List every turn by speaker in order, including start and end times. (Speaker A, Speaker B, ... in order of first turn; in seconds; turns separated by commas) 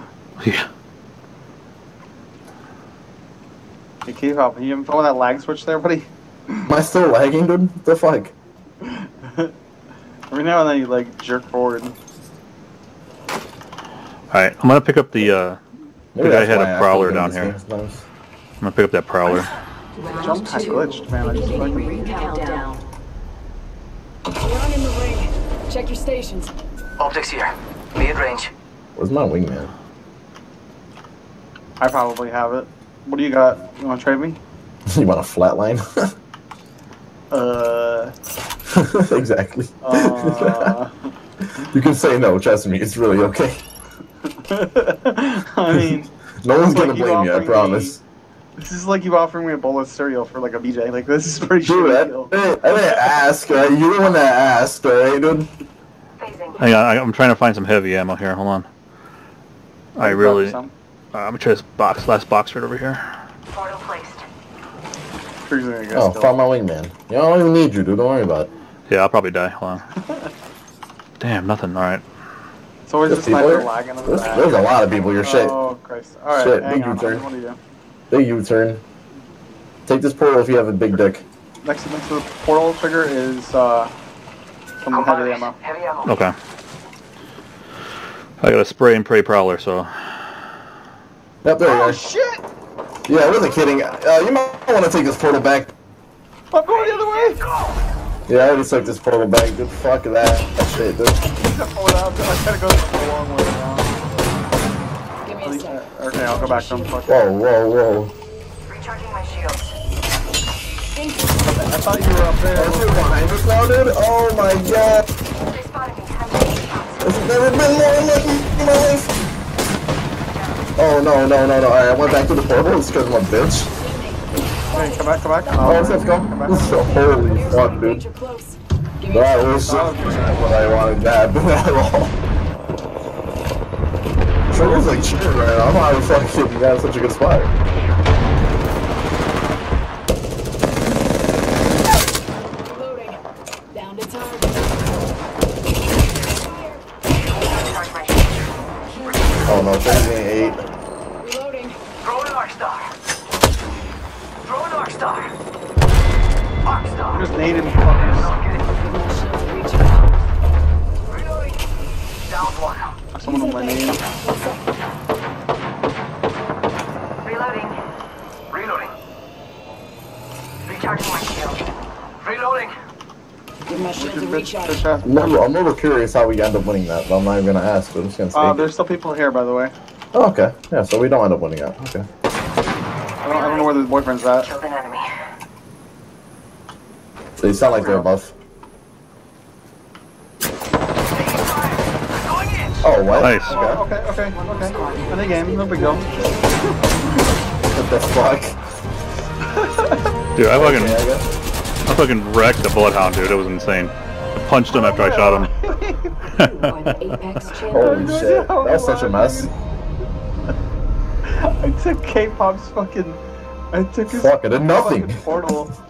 Speaker A: 0.4-0.7, Speaker B: 4.0-6.7, Speaker C: 6.7-8.3, Speaker B: 8.8-9.5, Speaker B: 10.3-11.9, Speaker A: 14.3-15.6, Speaker C: 16.1-18.1, Speaker A: 16.2-17.6, Speaker A: 18.6-19.5, Speaker B: 20.0-22.4, Speaker D: 20.0-22.7, Speaker D: 24.3-26.5, Speaker E: 27.0-28.5, Speaker C: 28.9-29.7, Speaker B: 31.8-34.4, Speaker C: 34.9-35.8, Speaker B: 37.3-38.1, Speaker C: 38.7-40.8, Speaker B: 39.8-40.9, Speaker C: 41.5-43.6, Speaker B: 44.2-46.1, Speaker C: 46.4-48.0, Speaker B: 46.6-48.0, Speaker B: 48.6-52.3, Speaker C: 51.6-55.5, Speaker E: 56.2-56.6, Speaker A: 56.6-58.7, Speaker A: 60.0-60.6, Speaker B: 60.0-60.7, Speaker A: 61.1-63.1, Speaker E: 63.5-64.2, Speaker B: 65.4-66.3, Speaker C: 65.9-68.5, Speaker A: 68.9-69.8, Speaker B: 69.9-70.3, Speaker A: 71.2-72.0, Speaker B: 72.8-74.6, Speaker C: 73.1-75.6, Speaker B: 75.2-77.6, Speaker C: 76.3-77.2, Speaker C: 78.1-78.8, Speaker C: 79.9-81.2, Speaker B: 81.6-83.9, Speaker B: 84.8-85.6, Speaker E: 84.9-86.0, Speaker A: 86.0-86.3, Speaker A: 88.4-89.9, Speaker C: 91.4-92.0, Speaker B: 91.6-92.4, Speaker C: 93.1-95.7, Speaker B: 96.5-97.5, Speaker C: 98.3-101.2, Speaker B: 101.2-103.9, Speaker D: 105.2-107.0, Speaker B: 105.4-107.3, Speaker C: 107.1-108.1, Speaker E: 108.7-109.8, Speaker D: 110.9-111.5, Speaker B: 111.4-113.2, Speaker C: 112.5-115.0, Speaker D: 115.4-117.1, Speaker C: 117.0-119.1, Speaker C: 120.8-123.7, Speaker D: 123.8-125.9, Speaker B: 124.7-126.8, Speaker C: 125.6-128.0, Speaker D: 126.5-129.5, Speaker C: 129.1-132.1, Speaker B: 129.6-130.9, Speaker C: 134.5-137.5, Speaker B: 134.5-135.0, Speaker D: 142.6-143.2, Speaker D: 143.7-144.8, Speaker D: 146.2-147.6, Speaker E: 147.2-148.5, Speaker D: 148.8-150.6, Speaker C: 149.4-150.6, Speaker D: 151.2-152.1, Speaker E: 152.0-152.9, Speaker E: 154.4-155.2, Speaker E: 156.7-157.0, Speaker B: 157.1-158.4, Speaker D: 158.7-160.0, Speaker E: 161.1-161.5, Speaker E: 162.3-162.8, Speaker B: 163.1-164.0, Speaker D: 163.2-164.6, Speaker E: 167.2-167.8, Speaker E: 168.5-168.9, Speaker E: 170.7-171.6, Speaker E: 172.2-172.7, Speaker D: 173.7-174.8, Speaker B: 173.9-175.4, Speaker C: 175.0-178.7, Speaker B: 178.3-179.7, Speaker C: 180.1-182.0, Speaker E: 183.2-185.1, Speaker B: 183.2-184.5, Speaker C: 187.4-188.3, Speaker B: 187.7-188.1, Speaker E: 191.1-192.7, Speaker C: 192.8-193.8, Speaker A: 193.1-193.6, Speaker B: 193.4-196.7, Speaker E: 194.8-195.1, Speaker D: 196.1-196.3, Speaker C: 197.7-198.6, Speaker B: 199.5-200.1, Speaker A: 200.3-201.0, Speaker C: 200.5-201.2, Speaker A: 201.8-203.9, Speaker A: 204.4-205.5, Speaker B: 204.7-206.3, Speaker A: 206.3-206.8, Speaker D: 206.4-207.9, Speaker C: 207.7-209.5, Speaker B: 207.7-209.5, Speaker B: 211.2-213.2, Speaker B: 213.7-215.7, Speaker C: 214.1-215.2